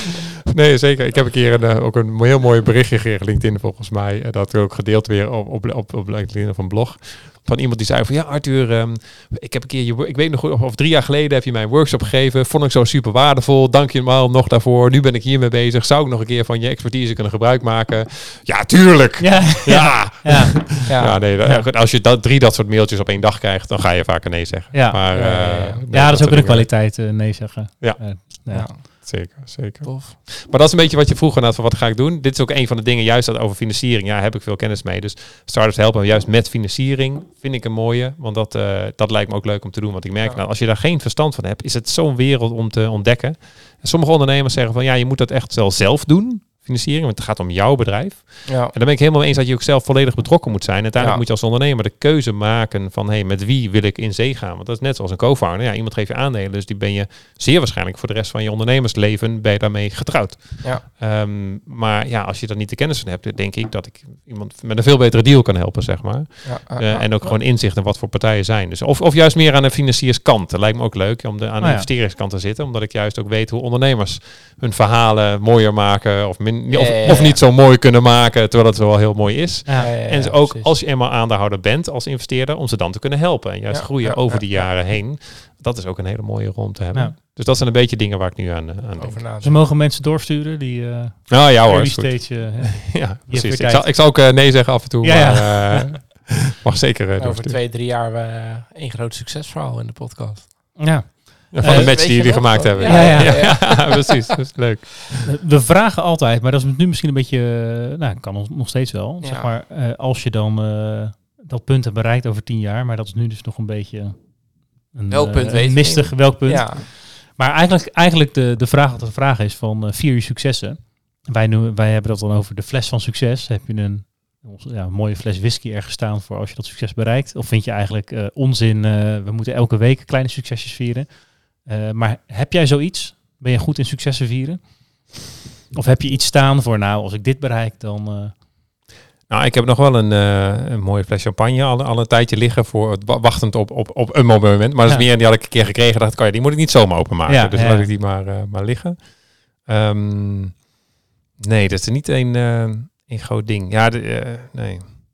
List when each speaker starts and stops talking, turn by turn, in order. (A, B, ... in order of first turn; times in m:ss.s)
0:00.5-0:27.2 A
0:19.2-0:20.9 B
0:20.9-0:21.2 C
0:21.4-0:21.7 B
0:24.7-0:28.7 B
0:25.1-0:25.8 C
0:27.8-1:29.2 A
0:28.5-0:30.2 C
0:48.5-0:48.7 C
1:06.4-1:07.3 C
1:11.6-1:11.9 B
1:16.7-1:17.4 C
1:19.7-1:20.7 C
1:23.7-1:24.8 C
1:29.0-1:29.6 C
1:29.4-1:34.5 B
1:31.3-1:37.6 A
1:35.0-1:36.0 B
1:37.2-1:40.9 C
1:40.8-1:43.6 B
1:41.5-1:45.3 A
1:41.6-1:44.4 C
1:45.2-2:15.2 B
1:49.2-1:49.5 C
1:55.1-1:56.9 C
2:15.7-2:18.4 B
2:19.3-2:30.7 A
2:27.3-2:27.9 B
2:31.4-2:34.8 A